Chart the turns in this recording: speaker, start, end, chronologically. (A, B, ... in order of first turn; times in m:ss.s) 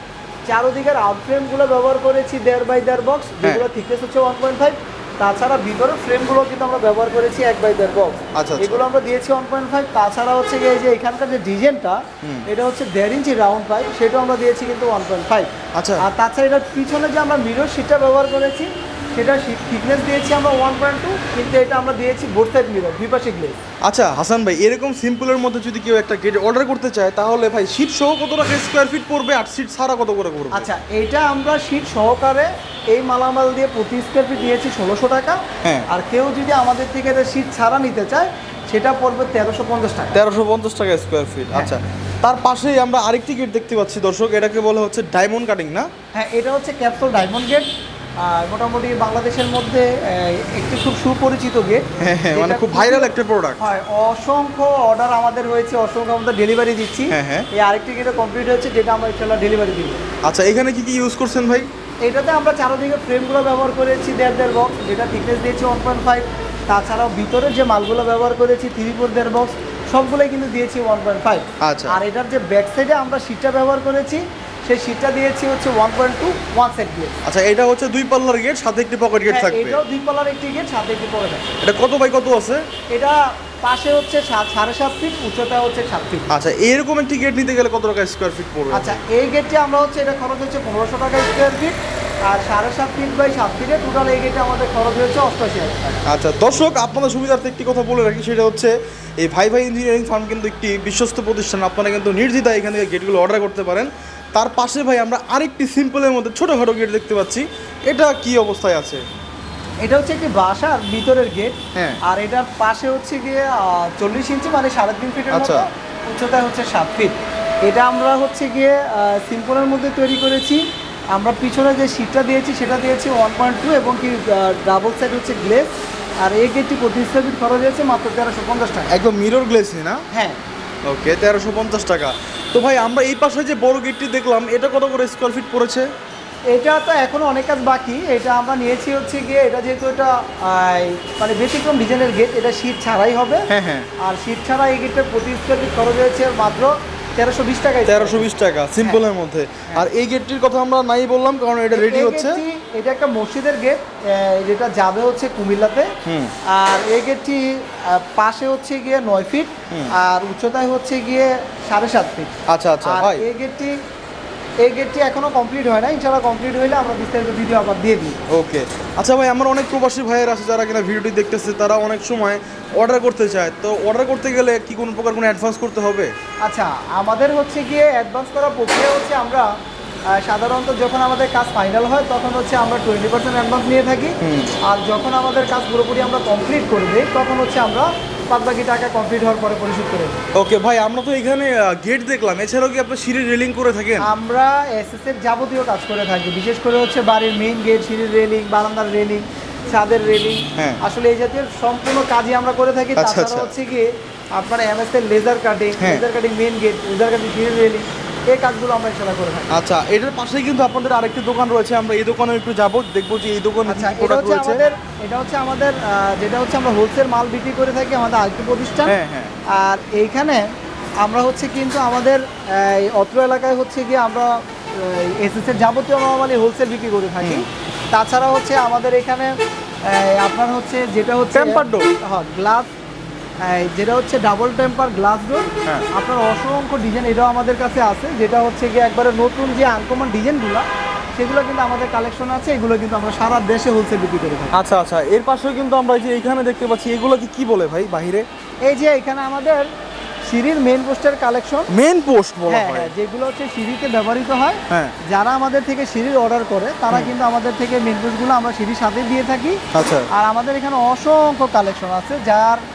0:00.5-0:23.6 A
0:03.4-0:03.7 B
0:08.4-0:08.8 B
0:15.8-0:16.0 B
0:23.8-0:30.7 B
0:30.5-0:40.2 A
0:40.1-0:45.9 B
0:46.1-0:47.7 A
0:48.2-1:00.0 A
0:52.0-0:53.6 B
0:57.1-0:57.5 B
1:00.2-1:01.7 B
1:02.0-1:17.2 A
1:11.6-1:12.0 B
1:17.2-1:19.8 B
1:19.3-1:21.6 A
1:21.6-1:22.6 B
1:22.9-1:26.3 A
1:26.3-1:29.0 B
1:28.7-1:31.8 A
1:32.3-1:36.0 A
1:36.1-1:49.0 B
1:49.8-2:00.6 A
1:55.3-1:55.7 B
2:01.1-2:08.9 A
2:08.9-2:10.0 B
2:10.1-2:10.4 A
2:10.9-2:15.9 B
2:16.5-2:23.4 A
2:23.5-2:23.9 B
2:24.0-2:28.3 A
2:27.9-2:32.4 B
2:31.7-2:35.9 A
2:36.0-2:36.3 B
2:36.5-2:43.8 A
2:42.5-2:43.2 B
2:44.6-2:48.2 A
2:48.3-2:56.1 B
2:56.4-2:59.5 A
3:00.1-3:10.2 A
3:04.2-3:04.6 B
3:10.4-3:14.1 B
3:14.0-3:29.6 A
3:23.0-3:23.5 B
3:25.8-3:26.0 B
3:29.5-3:34.6 B
3:33.7-3:38.9 A
3:38.9-3:39.3 B
3:39.5-3:40.5 A
3:41.0-3:52.7 A
3:47.2-3:47.5 B
3:51.3-3:52.0 B
3:53.4-4:04.6 A
4:04.5-4:08.3 B
4:08.6-4:09.7 A
4:10.3-4:11.7 A
4:11.7-4:12.9 B
4:12.5-4:22.6 A
4:14.7-4:15.0 B
4:19.7-4:20.1 B